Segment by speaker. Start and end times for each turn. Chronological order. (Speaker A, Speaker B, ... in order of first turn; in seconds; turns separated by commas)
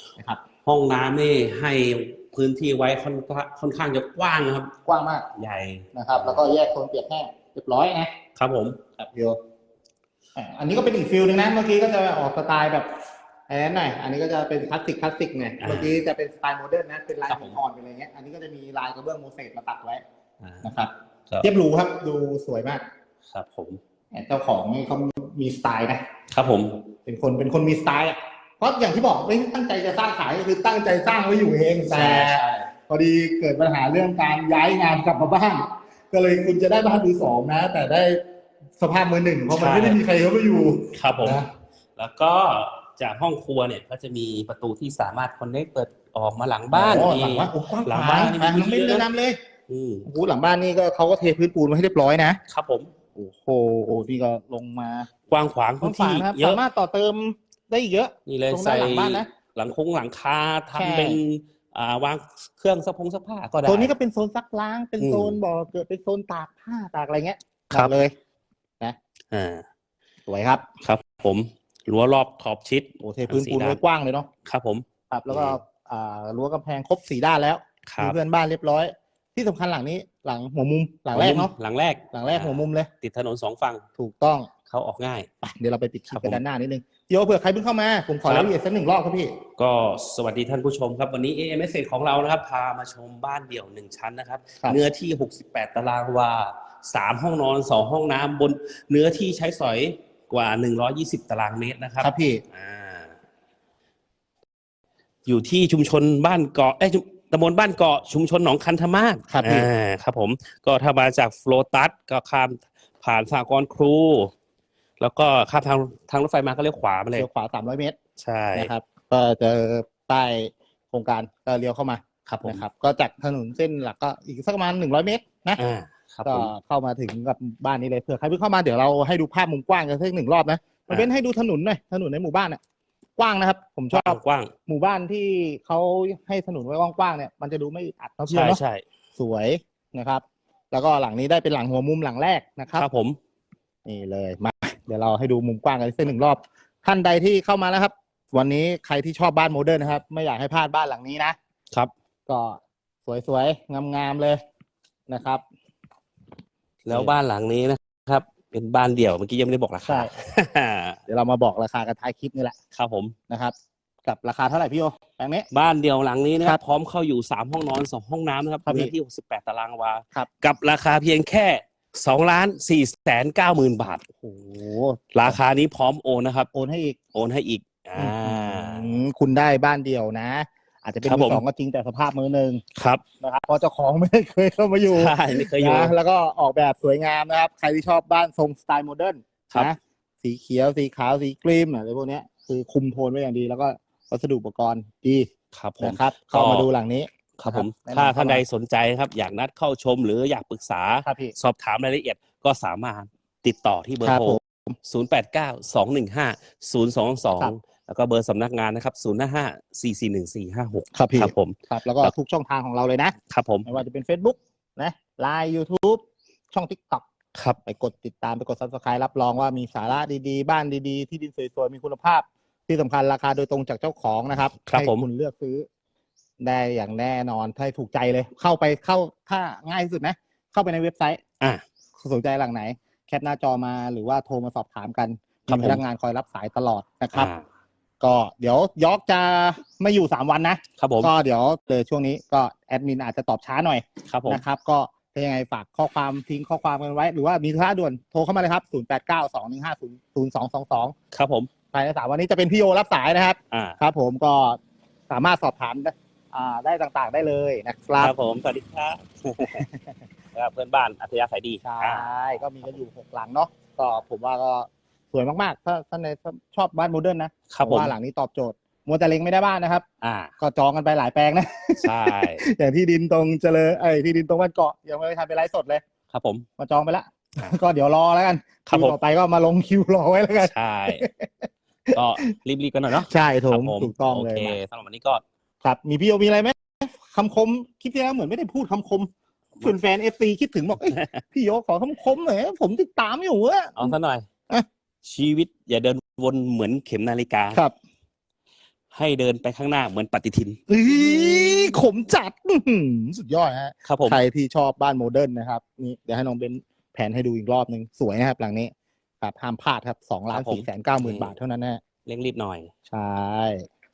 Speaker A: 0.2-0.4, Speaker B: 0.6-4.7, Speaker A: 4.8-5.3, Speaker B: 5.3-6.4, Speaker A: 5.9-8.1, Speaker B: 8.3-8.8, Speaker A: 9.0-9.4, Speaker A: 10.3-12.9, Speaker A: 13.5-20.0, Speaker B: 15.6-15.9, Speaker B: 17.3-17.6, Speaker B: 20.4-20.7, Speaker A: 20.6-22.8, Speaker B: 23.3-23.8, Speaker A: 24.1-26.0, Speaker B: 26.3-26.8, Speaker A: 27.1-38.2, Speaker B: 31.9-32.7, Speaker A: 38.8-41.5, Speaker B: 39.5-40.0, Speaker B: 40.9-41.4, Speaker B: 42.0-49.1, Speaker A: 46.7-49.4, Speaker B: 49.7-50.1, Speaker A: 50.0-52.4, Speaker B: 52.5-52.9, Speaker A: 53.1-55.1, Speaker B: 55.3-56.6, Speaker A: 55.8-59.3, Speaker B: 58.3-63.9, Speaker A: 60.7-61.2, Speaker A: 63.6-68.1, Speaker B: 65.0-65.4, Speaker B: 69.3-69.6, Speaker A: 70.3-70.6, Speaker B: 70.8-73.8, Speaker A: 73.0-74.3, Speaker B: 74.5-75.6, Speaker A: 75.1-81.5, Speaker B: 77.9-78.2, Speaker B: 81.1-83.8, Speaker A: 82.1-82.9, Speaker A: 84.0-84.5, Speaker B: 84.7-85.3, Speaker A: 85.4-89.3, Speaker B: 86.1-86.4, Speaker B: 88.2-88.5, Speaker B: 89.6-103.1, Speaker A: 102.0-102.4, Speaker B: 105.2-114.3, Speaker A: 109.3-109.7, Speaker B: 115.0-117.3, Speaker A: 117.1-118.0, Speaker B: 118.2-118.7, Speaker A: 118.5-125.6, Speaker B: 122.3-122.6, Speaker B: 125.6-126.5, Speaker A: 126.2-132.6, Speaker A: 133.2-138.6, Speaker B: 133.9-134.5, Speaker B: 138.3-138.8, Speaker A: 139.2-142.8, Speaker B: 142.7-143.2, Speaker A: 143.8-151.4, Speaker A: 152.3-154.4, Speaker A: 155.1-155.4, Speaker B: 156.8-161.0, Speaker A: 156.9-157.1, Speaker A: 159.8-160.1, Speaker A: 161.1-162.5, Speaker B: 162.7-163.1, Speaker A: 163.3-163.5, Speaker A: 164.1-165.5, Speaker B: 165.5-174.0, Speaker A: 168.6-168.9, Speaker A: 174.2-175.4, Speaker B: 175.1-176.5, Speaker A: 176.5-177.0, Speaker B: 177.1-179.0, Speaker A: 177.9-182.6, Speaker B: 181.0-181.4, Speaker B: 182.8-183.0, Speaker A: 183.2-195.3, Speaker B: 184.9-185.9, Speaker B: 195.5-196.7, Speaker A: 195.8-198.4, Speaker B: 197.4-212.1, Speaker A: 201.0-201.3, Speaker A: 204.0-204.7, Speaker A: 210.9-213.1, Speaker B: 213.3-213.7, Speaker A: 213.7-217.0, Speaker A: 217.6-225.7, Speaker B: 224.7-225.0, Speaker A: 226.4-231.2, Speaker A: 232.0-237.3, Speaker B: 235.5-235.8, Speaker B: 237.1-237.4, Speaker A: 238.0-250.9, Speaker B: 240.8-241.1, Speaker B: 244.1-244.4, Speaker B: 251.1-251.5, Speaker A: 251.7-254.6, Speaker B: 253.5-253.8, Speaker A: 255.1-258.1, Speaker B: 258.0-259.6, Speaker A: 259.5-259.9, Speaker B: 260.3-262.1, Speaker A: 261.6-269.8, Speaker B: 267.5-267.9, Speaker B: 270.0-270.3, Speaker A: 270.4-275.8, Speaker B: 271.8-272.4, Speaker B: 276.1-276.5, Speaker A: 276.6-282.0, Speaker B: 278.7-278.9, Speaker B: 280.4-281.1, Speaker B: 281.9-285.2, Speaker A: 283.0-284.6, Speaker A: 285.6-289.1, Speaker A: 289.6-293.9, Speaker B: 290.9-291.2, Speaker B: 293.8-294.3, Speaker B: 295.0-297.6, Speaker B: 298.9-300.6, Speaker A: 300.7-311.8, Speaker B: 303.8-304.2, Speaker B: 310.3-311.4, Speaker B: 312.1-312.7, Speaker A: 312.9-313.6